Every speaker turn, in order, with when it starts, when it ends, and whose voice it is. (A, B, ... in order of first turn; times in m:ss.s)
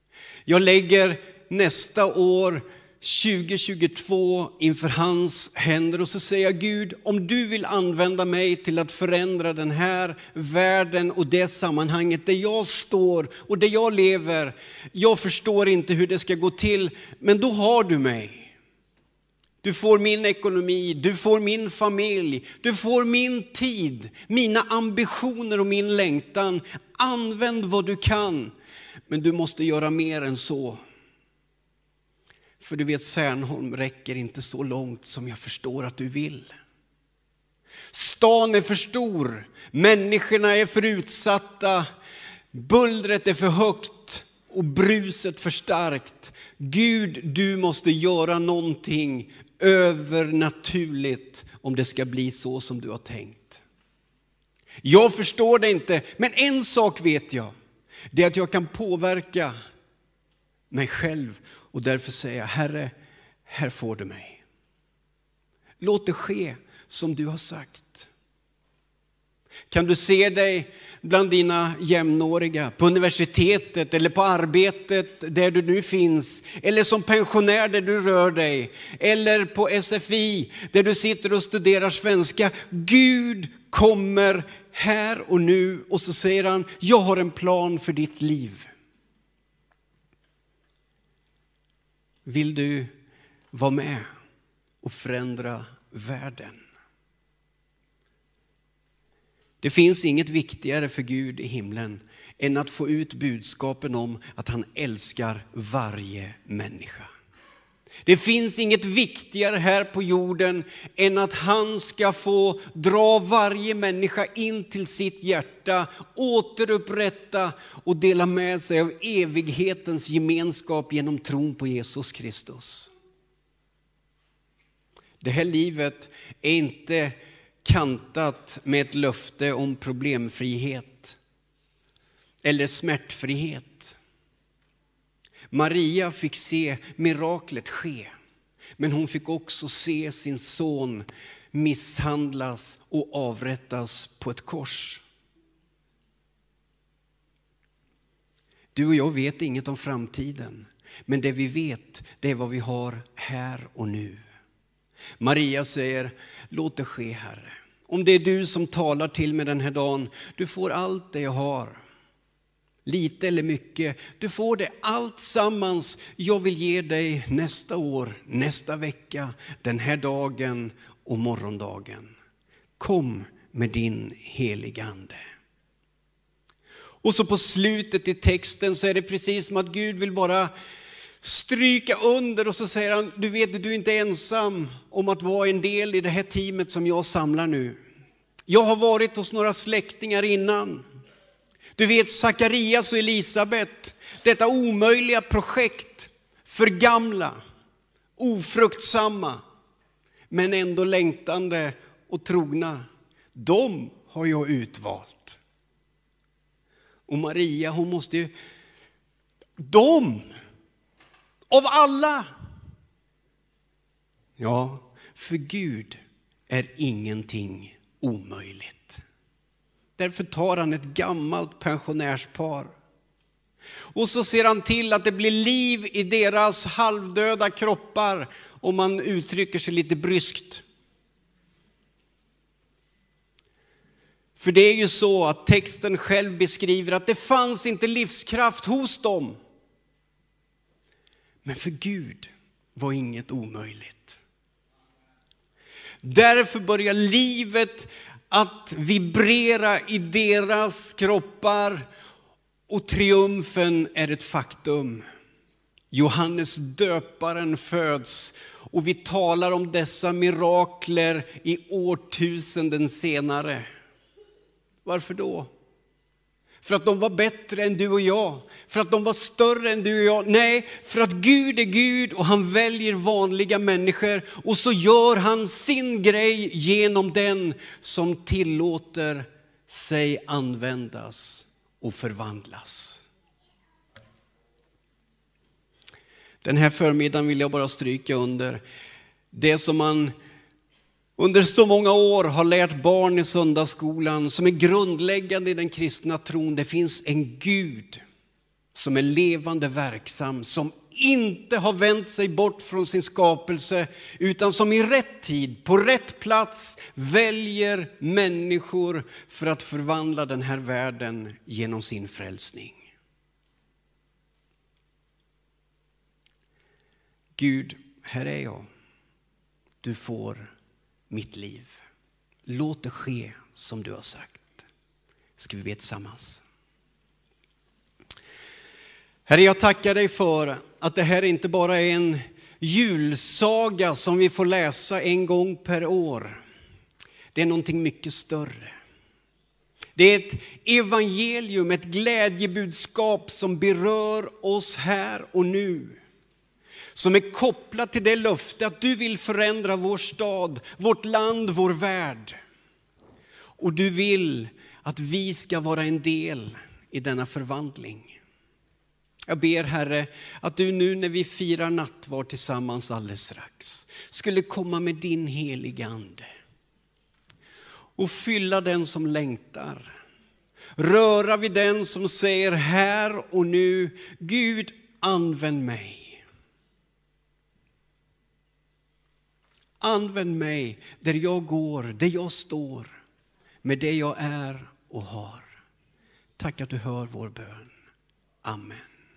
0:00.5-0:18.5 A
0:19.6-0:28.5 A
0:29.1-0:30.8 A
0:32.6-0:36.5 A
0:37.9-0:41.9 A
0:42.5-0:53.6 A
0:54.8-0:57.5 A
0:58.1-0:59.5 A
1:00.7-1:02.9 A
1:03.5-1:04.4 A
1:05.8-1:08.1 A
1:09.7-1:28.7 A
1:32.2-1:32.9 A
1:33.5-1:34.1 A
1:34.8-1:36.6 A
1:39.6-1:47.1 A
1:48.0-2:02.9 A
2:05.2-2:11.2 A
2:12.4-2:14.0 A
2:15.5-2:18.1 A
2:18.8-2:25.0 A
2:28.7-2:34.2 A
2:35.2-2:41.8 A
2:42.8-2:52.1 A
2:52.8-2:55.2 A
2:57.0-3:00.5 A
3:01.2-3:07.8 A
3:08.5-3:10.9 A
3:11.8-3:17.4 A
3:18.2-3:19.4 A
3:20.3-3:25.4 A
3:27.1-3:28.3 A
3:29.6-3:30.3 A
3:31.5-3:32.3 A
3:34.4-3:39.0 A
3:40.0-3:42.7 A
3:43.9-3:50.6 A
3:54.4-3:59.4 A
4:01.4-4:04.2 A
4:06.0-4:11.9 A
4:12.7-4:15.0 A
4:15.9-4:23.7 A
4:24.8-4:25.5 A
4:26.6-4:43.0 A
4:46.4-4:48.6 A
4:49.3-4:50.1 A
4:51.2-4:58.0 A
4:58.7-5:12.8 A
5:17.4-5:18.7 A
5:19.8-5:20.5 A
5:21.1-5:21.7 A
5:22.4-5:24.6 A
5:25.4-5:26.4 A
5:29.3-5:36.4 A
5:37.4-5:38.7 A
5:40.0-5:46.0 A
5:46.9-5:52.4 A
5:53.6-5:58.2 A
5:59.3-6:06.3 A
6:08.0-6:09.9 A
6:10.8-6:16.2 A
6:19.8-6:23.0 A
6:23.6-6:25.5 A
6:26.4-6:27.7 A
6:28.4-6:28.9 A